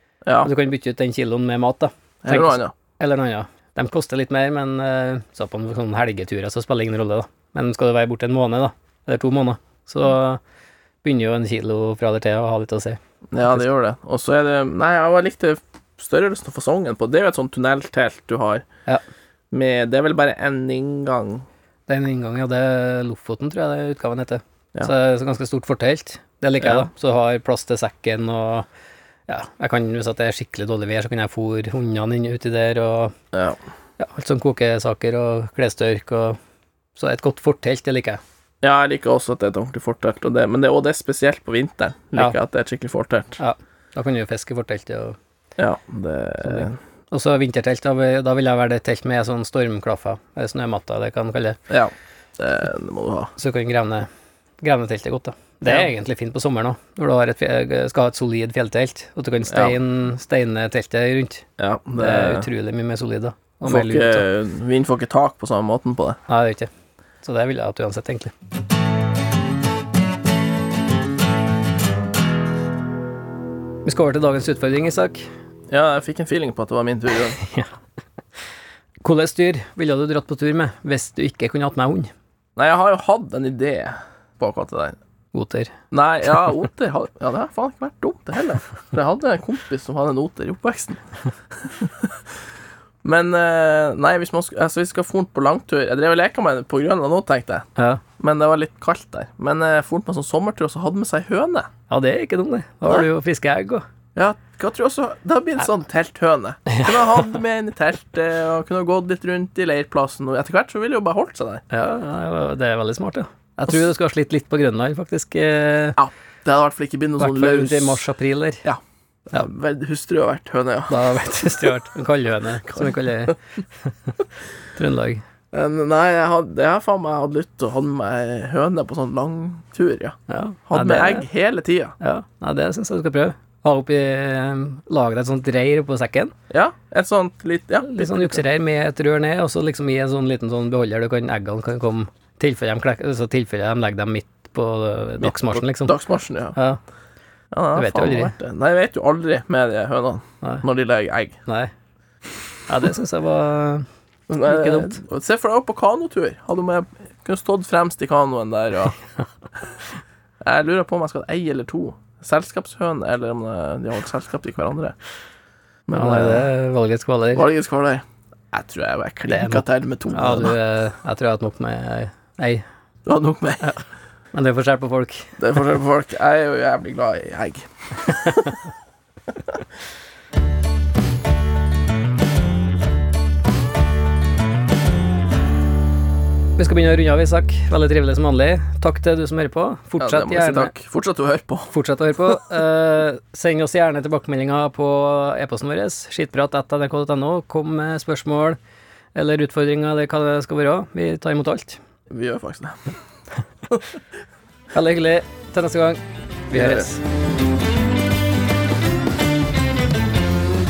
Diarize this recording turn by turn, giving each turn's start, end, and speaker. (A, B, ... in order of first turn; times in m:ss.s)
0:00.2-0:00.5 A
0:00.4-0:10.4 B
0:02.2-0:02.7 A
0:11.0-0:13.6 B
0:13.3-0:18.6 A
0:19.5-0:21.4 A
0:21.9-0:28.7 B
0:26.6-0:26.9 A
0:29.3-0:33.1 B
0:33.3-0:33.6 A
0:34.0-0:36.4 B
0:37.0-0:38.2 B
0:38.6-0:43.4 A
0:43.4-0:45.2 B
0:45.6-0:46.8 A
0:46.4-0:51.6 B
0:51.7-0:53.3 A
0:53.4-0:54.1 B
0:54.6-1:04.2 B
0:55.6-0:55.9 A
0:59.5-0:59.8 A
1:01.6-1:02.5 A
1:03.6-1:06.2 A
1:06.3-1:06.7 B
1:07.2-1:08.3 B
1:13.8-1:15.2 B
1:15.7-1:17.4 A
1:17.4-1:17.7 B
1:19.0-1:22.1 B
1:22.6-1:25.0 A
1:25.3-1:25.7 B
1:25.9-1:31.0 A
1:33.0-1:37.6 A
1:37.8-1:38.0 B
1:38.2-1:41.7 A
1:41.9-1:43.8 B
1:44.1-1:51.6 A
1:46.7-1:47.3 B
1:51.7-1:56.0 B
1:56.0-1:58.0 A
1:57.2-1:58.7 B
1:58.6-2:01.0 A
2:00.9-2:04.2 B
2:04.7-2:05.2 B
2:05.5-2:10.1 A
2:10.3-2:11.3 B
2:10.7-2:12.0 A
2:12.0-2:16.3 B
2:16.5-2:18.4 A
2:17.8-2:26.0 B
2:25.2-2:26.6 A
2:26.5-2:26.8 B
2:27.5-2:31.4 A
2:27.7-2:28.3 B
2:31.4-2:31.7 B
2:32.7-2:33.8 B
2:34.3-2:39.0 A
2:34.4-2:35.0 B
2:40.4-2:44.9 A
2:45.9-2:46.5 A
2:45.9-2:47.5 B
2:47.3-2:50.5 A
2:49.3-2:52.6 B
2:53.0-2:53.7 A
2:54.3-2:55.3 B
2:55.4-2:57.7 A
2:58.1-2:58.5 B
3:06.6-3:10.7 B
3:10.0-3:11.7 A
3:11.7-3:18.6 B
3:19.1-3:21.8 B
3:22.1-3:22.8 A
3:24.7-3:27.0 B
3:26.5-3:26.9 A